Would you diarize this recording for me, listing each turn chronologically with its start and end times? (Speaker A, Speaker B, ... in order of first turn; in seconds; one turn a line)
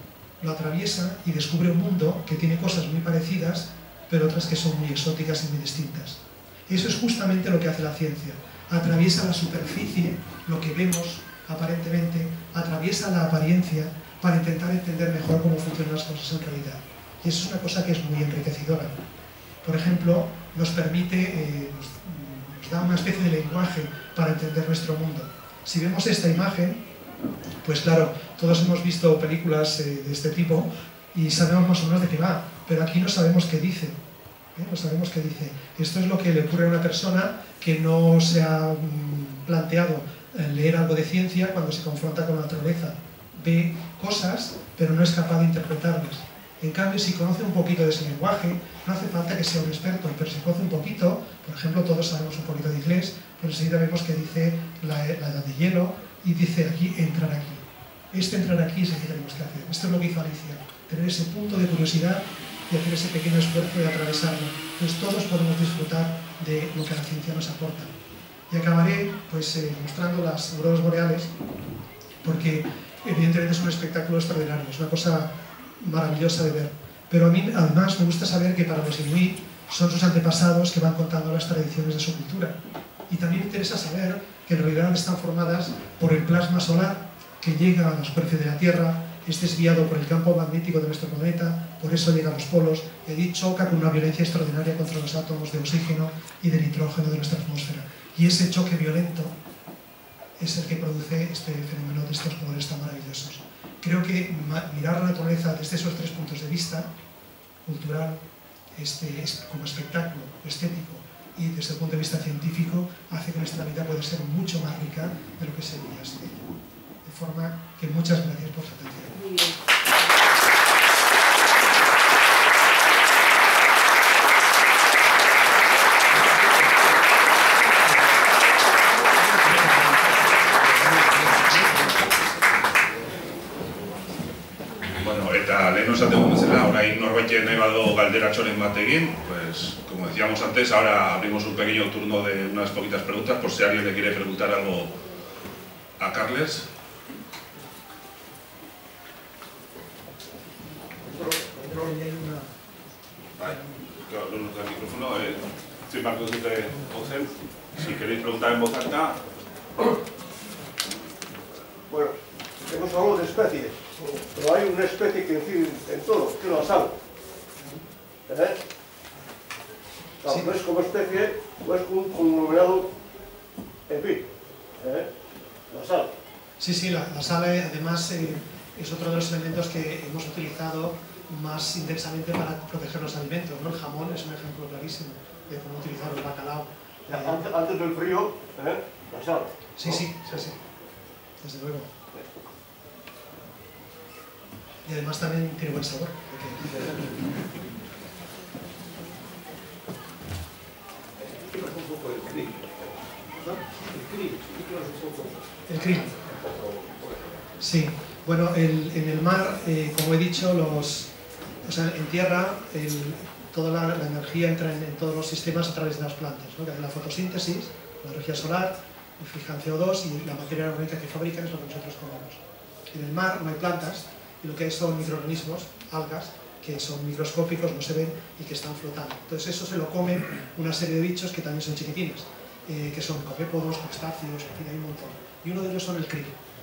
Speaker A: 0.4-19.0
Speaker A: 19.6-26.8
Speaker A: 27.6-34.0
Speaker A: 34.5-67.9
Speaker A: 68.5-71.3
Speaker A: 72.2-82.5
Speaker A: 83.1-99.3
Speaker A: 100.4-106.9
Speaker A: 107.7-108.2
Speaker A: 108.8-116.5
Speaker A: 117.0-119.5
Speaker B: 135.0-144.9
Speaker B: 146.0-146.7
Speaker C: 151.3-151.5
Speaker A: 151.6-152.5
Speaker B: 153.4-159.3
Speaker C: 161.9-166.9
Speaker C: 168.3-168.6
Speaker C: 170.2-172.9
Speaker C: 173.9-174.3
Speaker C: 174.8-175.1
Speaker C: 175.7-176.1
Speaker A: 176.6-187.4
Speaker C: 187.1-190.1
Speaker A: 189.8-190.6
Speaker A: 191.4-191.9
Speaker A: 194.9-196.8
Speaker C: 201.2-202.7
Speaker C: 203.4-205.4
Speaker A: 205.7-206.2
Speaker A: 207.6-211.1
Speaker A: 211.6-236.4